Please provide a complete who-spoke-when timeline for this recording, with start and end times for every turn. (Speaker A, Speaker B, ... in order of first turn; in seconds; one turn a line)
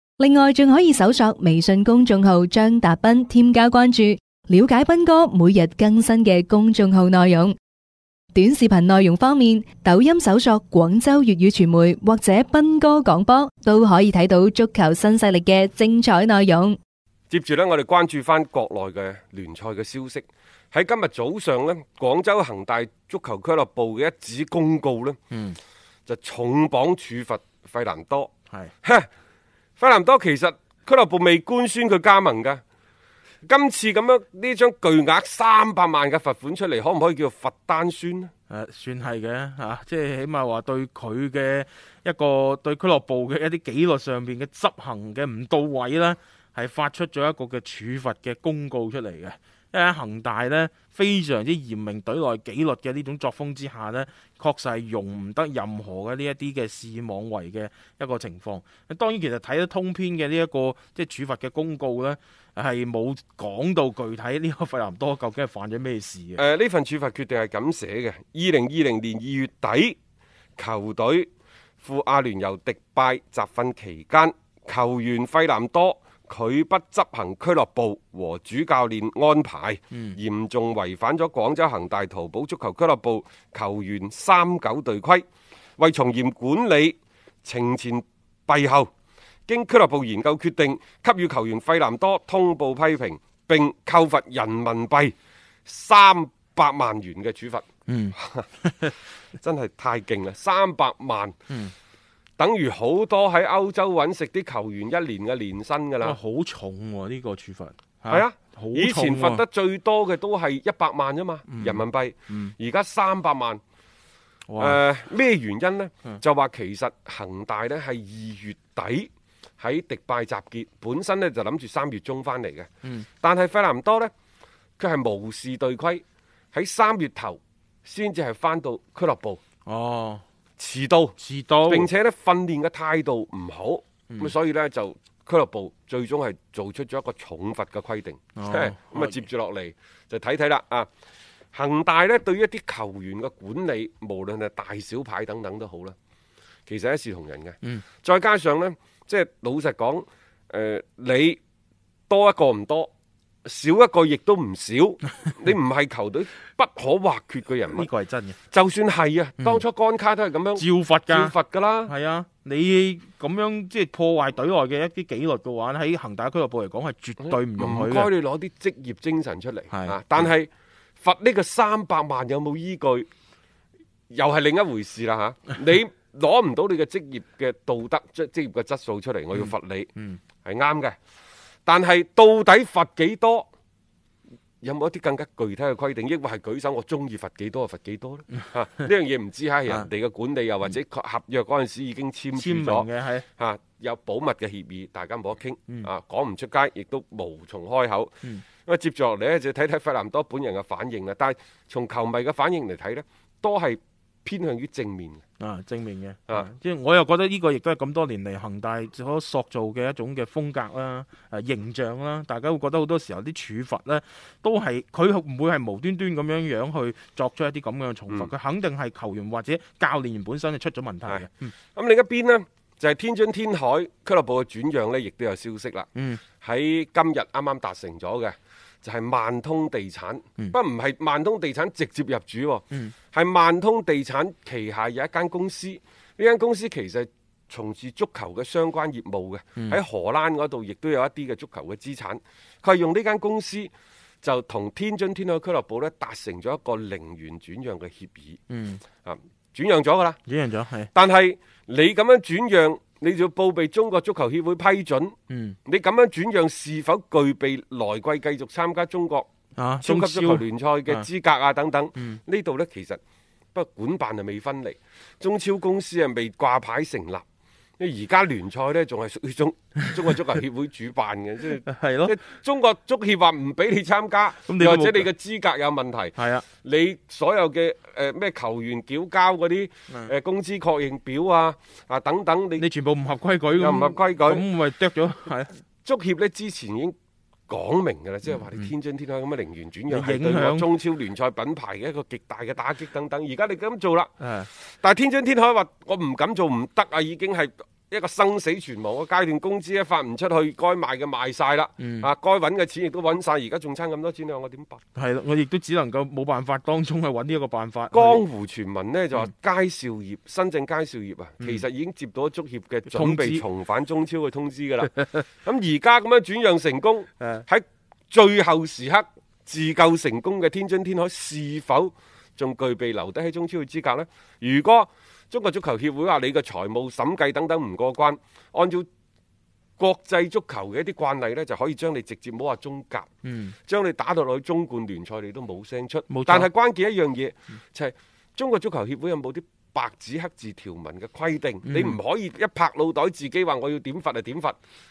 Speaker A: 0.2-7.5
Speaker A: 8.3-16.8
Speaker B: 17.3-25.2
Speaker C: 25.3-25.6
Speaker B: 26.1-28.3
Speaker B: 28.8-29.1
Speaker B: 29.8-32.6
Speaker B: 33.5-38.3
Speaker C: 38.5-66.4
Speaker B: 66.4-70.0
Speaker B: 70.6-71.3
Speaker B: 71.8-85.2
Speaker C: 79.9-80.2
Speaker B: 85.8-88.9
Speaker B: 89.5-95.1
Speaker B: 95.7-98.5
Speaker C: 97.9-99.0
Speaker B: 99.4-101.4
Speaker B: 102.4-106.2
Speaker C: 106.0-109.4
Speaker B: 108.1-113.6
Speaker C: 111.5-112.5
Speaker C: 114.5-114.8
Speaker B: 114.6-122.7
Speaker B: 123.2-124.1
Speaker B: 124.8-129.4
Speaker C: 129.7-130.2
Speaker B: 130.6-140.9
Speaker C: 131.2-131.9
Speaker C: 138.4-139.3
Speaker B: 141.5-145.9
Speaker B: 146.7-151.4
Speaker B: 152.1-152.9
Speaker B: 153.4-157.9
Speaker C: 157.7-158.4
Speaker B: 158.5-161.9
Speaker C: 160.6-161.3
Speaker C: 161.9-168.1
Speaker B: 167.2-170.5
Speaker C: 169.7-170.3
Speaker B: 171.0-173.1
Speaker B: 174.1-181.0
Speaker B: 181.7-183.5
Speaker B: 184.6-205.2
Speaker C: 192.3-193.3
Speaker C: 205.4-221.5
Speaker B: 221.1-243.7
Speaker C: 226.0-226.2
Speaker B: 244.2-248.4
Speaker C: 248.5-248.8
Speaker B: 249.0-250.2
Speaker C: 250.3-250.9
Speaker B: 250.9-255.2
Speaker C: 255.3-255.6
Speaker B: 255.7-259.3
Speaker C: 259.6-261.1
Speaker B: 259.8-263.0
Speaker B: 263.5-267.2
Speaker B: 267.8-282.7
Speaker C: 271.6-272.1
Speaker C: 274.5-275.1
Speaker C: 276.2-276.4
Speaker C: 282.6-285.6
Speaker B: 283.6-284.5
Speaker B: 285.8-286.9
Speaker B: 287.5-304.8
Speaker C: 289.9-290.7
Speaker C: 294.2-294.5
Speaker C: 301.8-302.1
Speaker C: 305.0-308.2
Speaker B: 307.9-328.9
Speaker C: 312.9-313.4
Speaker B: 329.8-333.1
Speaker C: 333.2-333.6
Speaker B: 333.6-344.6
Speaker C: 336.1-336.5
Speaker C: 341.7-342.0